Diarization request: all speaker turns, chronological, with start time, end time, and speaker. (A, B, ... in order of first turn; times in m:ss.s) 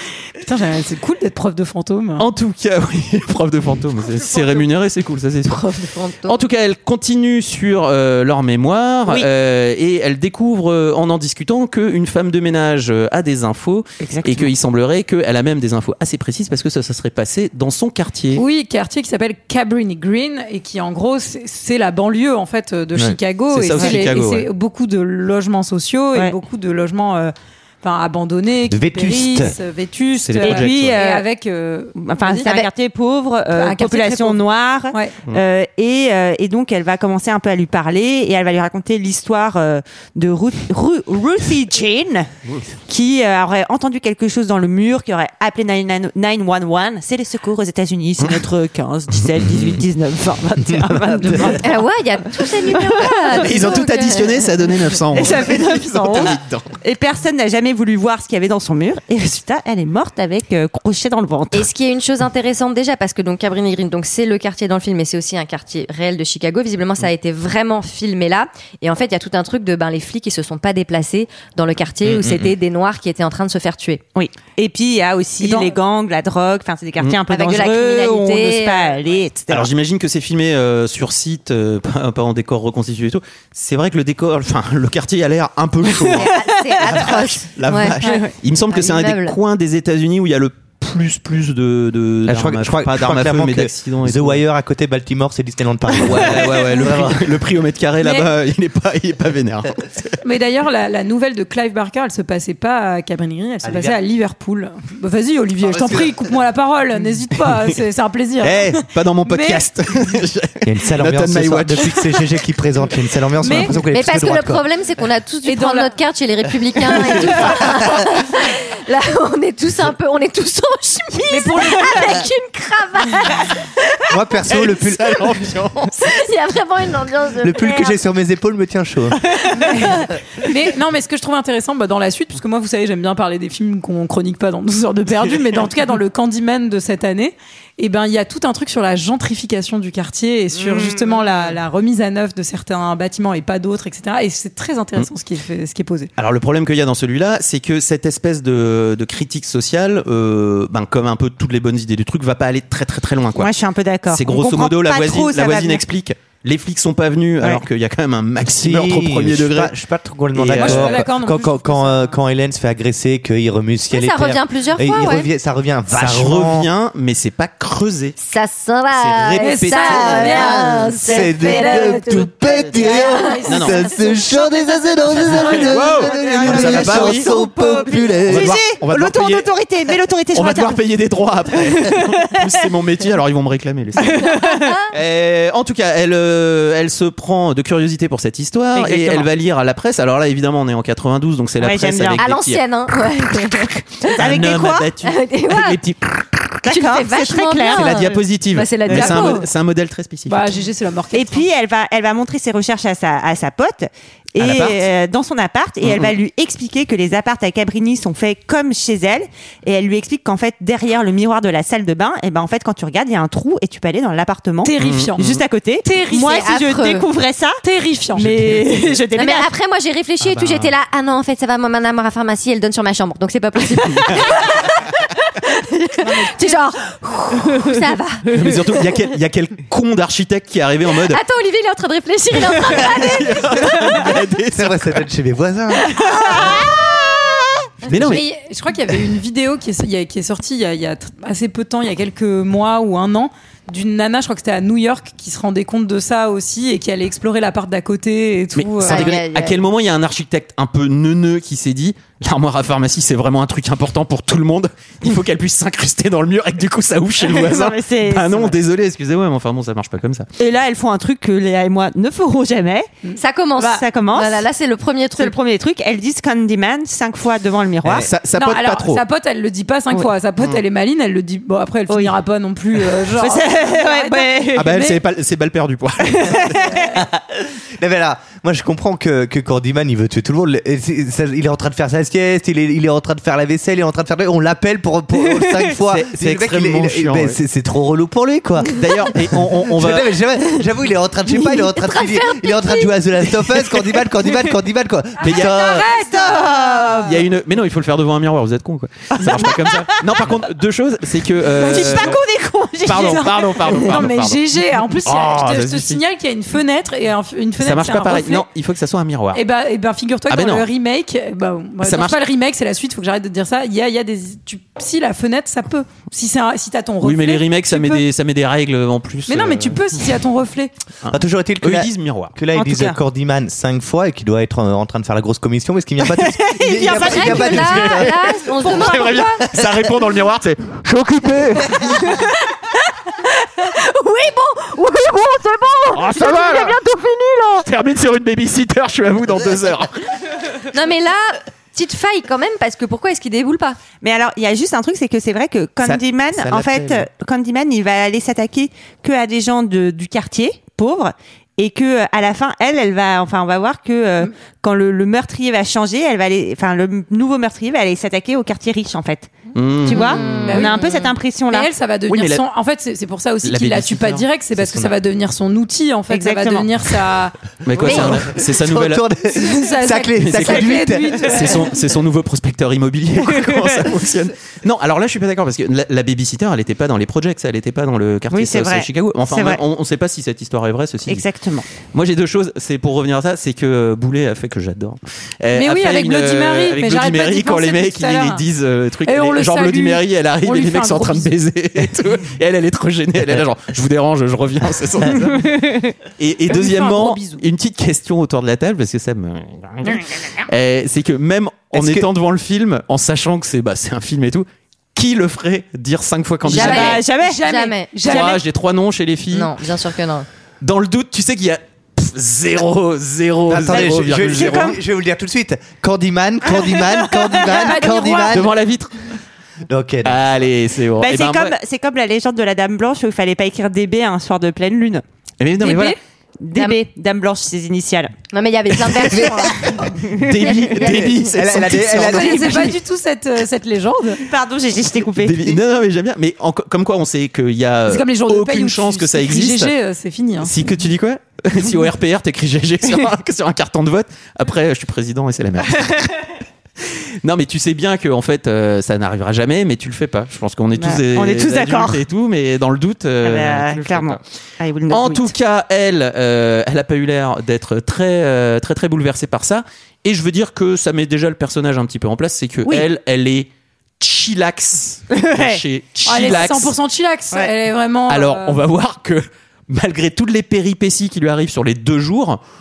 0:00.4-0:02.2 A
0:02.2-0:05.7 B
0:05.5-0:06.4 C
0:06.2-0:18.4 B
0:14.0-0:14.5 D
0:18.3-0:32.5 A
0:23.5-0:24.5 B
0:28.7-0:29.6 E
0:30.2-0:31.0 B
0:30.4-0:31.3 D
0:32.0-0:42.3 D
0:32.4-0:32.7 C
0:33.5-0:34.4 A
0:34.9-0:35.2 A
0:42.9-0:51.8 D
0:50.7-0:51.6 E
0:51.6-0:54.5 C
0:52.5-0:53.4 D
0:53.3-0:56.7 B
0:55.1-1:01.7 D
1:01.5-1:14.0 C
1:12.0-1:12.5 E
1:14.2-1:19.7 D
1:15.4-1:15.7 A
1:17.3-1:19.0 C
1:19.5-1:34.4 B
1:26.0-1:29.4 C
1:26.3-1:26.7 D
1:28.0-1:28.3 A
1:32.3-1:37.3 E
1:36.0-1:40.2 B
1:38.0-1:38.3 A
1:40.2-1:49.7 A
1:43.6-1:44.0 E
1:45.7-1:46.1 E
1:47.4-1:47.7 B
1:48.4-1:52.2 B
1:50.6-1:54.6 E
1:53.4-1:53.8 A
1:53.8-2:04.1 C
1:55.4-1:55.9 A
1:57.2-1:57.9 A
2:01.3-2:02.2 A
2:04.1-2:05.4 E
2:04.5-2:05.9 B
2:06.0-2:08.0 C
2:07.4-2:09.2 E
2:09.5-2:10.0 C
2:09.6-2:26.1 A
2:20.5-2:21.6 D
2:26.2-2:33.5 B
2:33.4-2:35.8 D
2:34.1-2:39.7 B
2:38.4-2:46.7 E
2:40.3-2:41.1 B
2:40.5-2:42.2 A
2:43.9-2:45.3 C
2:45.9-2:48.2 B
2:48.2-2:53.7 C
2:48.9-2:50.7 B
2:49.4-2:58.2 A
2:50.0-2:58.6 E
2:53.5-2:53.9 B
2:55.4-2:57.3 B
2:56.1-3:00.8 D
2:58.3-2:59.5 B
3:00.3-3:04.3 B
3:01.6-3:02.4 D
3:04.0-3:04.8 D
3:04.2-3:04.9 C
3:04.9-3:12.6 B
3:08.7-3:09.3 D
3:11.6-3:12.2 D
3:12.2-3:14.2 C
3:14.0-3:14.9 D
3:14.1-3:16.4 B
3:15.0-3:15.8 C
3:16.6-3:18.2 D
3:16.6-3:19.4 C
3:17.7-3:20.4 B
3:18.9-3:19.4 D
3:19.0-3:19.4 A
3:20.2-3:21.4 A
3:21.1-3:37.6 D
3:24.4-3:24.9 B
3:25.8-3:26.1 B
3:34.6-3:35.2 A
3:34.8-3:35.4 B
3:35.8-3:36.3 A
3:36.1-3:37.0 C
3:37.6-3:38.9 A
3:38.1-3:39.5 D
3:39.1-3:44.9 C
3:40.2-3:40.7 B
3:43.9-3:44.3 B
3:45.4-3:48.9 C
3:46.0-3:46.6 A
3:48.3-3:51.2 B
3:51.1-3:54.2 C
3:52.5-3:55.0 B
3:54.5-3:56.6 E
3:56.2-3:56.6 B
3:57.8-3:58.2 B
3:57.8-3:58.2 E
3:58.1-4:09.1 A
4:08.6-4:20.3 B
4:08.8-4:09.6 C
4:17.2-4:18.6 D
4:20.4-4:22.9 D
4:23.2-4:25.4 C
4:23.6-4:24.5 D
4:25.1-4:28.1 D
4:27.8-4:28.1 E
4:28.0-4:29.0 B
4:28.3-4:35.0 A
4:31.9-4:32.2 D
4:33.0-4:34.8 D
4:34.5-4:36.8 B
4:36.1-4:36.8 D
4:36.6-4:37.0 A
4:37.0-4:55.9 E
4:45.8-4:47.4 B
4:48.7-4:50.2 B
4:51.3-4:53.4 C
4:55.2-4:57.2 A
4:55.2-4:55.7 B
4:56.2-4:57.0 D
4:56.9-5:02.2 B
4:59.2-5:00.2 D
5:01.5-5:03.9 D
5:02.8-5:06.0 B
5:02.9-5:08.5 A
5:07.6-5:09.4 B
5:09.3-5:18.0 A
5:10.3-5:10.7 B
5:11.8-5:12.2 B
5:17.0-5:20.0 B
5:19.3-5:20.7 A
5:21.0-5:22.3 B
5:21.1-5:28.4 E
5:22.5-5:23.0 D
5:26.1-5:27.8 D
5:26.8-5:29.4 C
5:27.4-5:32.1 B
5:33.6-5:36.8 C
5:35.9-5:40.1 B
5:40.6-5:43.8 C
5:44.0-5:59.3 D
5:45.8-5:47.0 B
5:59.5-6:00.4 B
5:59.8-6:01.7 D
5:59.9-6:01.1 C
6:00.4-6:01.0 A
6:01.5-6:07.3 A
6:02.1-6:02.4 B
6:03.4-6:04.2 B
6:04.6-6:04.9 E
6:06.1-6:06.7 D
6:07.6-6:09.0 B
6:07.8-6:11.4 E
6:07.8-6:08.1 C
6:09.3-6:11.7 A
6:10.2-6:21.2 B
6:18.3-6:19.6 D
6:21.1-6:21.7 D
6:21.9-6:35.5 B
6:25.5-6:28.4 A
6:29.0-6:31.3 A
6:36.2-6:47.0 B
6:36.5-6:37.4 A
6:41.7-6:42.1 E
6:46.5-6:48.4 C
6:46.5-6:48.4 A
6:46.6-6:47.4 D
6:48.0-6:49.5 B
6:49.3-6:50.3 C
6:50.6-6:54.8 B
6:53.5-6:58.5 E
6:53.6-6:54.8 D
6:56.5-6:57.9 D
6:57.5-6:58.4 A
6:58.3-6:59.1 B
6:59.7-7:00.3 E
7:00.0-7:01.5 B
7:01.0-7:05.0 D
7:05.4-7:06.0 B
7:05.6-7:06.0 A
7:06.4-7:08.1 D
7:08.3-7:09.7 C
7:08.9-7:12.8 E
7:10.1-7:12.7 B
7:10.4-7:11.0 C
7:12.0-7:14.2 A
7:14.2-7:15.6 D
7:15.2-7:19.7 B
7:17.9-7:20.5 A
7:20.4-7:26.2 B
7:27.2-7:34.2 B
7:30.8-7:32.0 D
7:33.2-7:35.3 D
7:34.9-7:43.5 B
7:44.0-7:46.7 B
7:45.1-7:45.6 D
7:46.0-7:48.6 A
7:48.1-7:52.4 B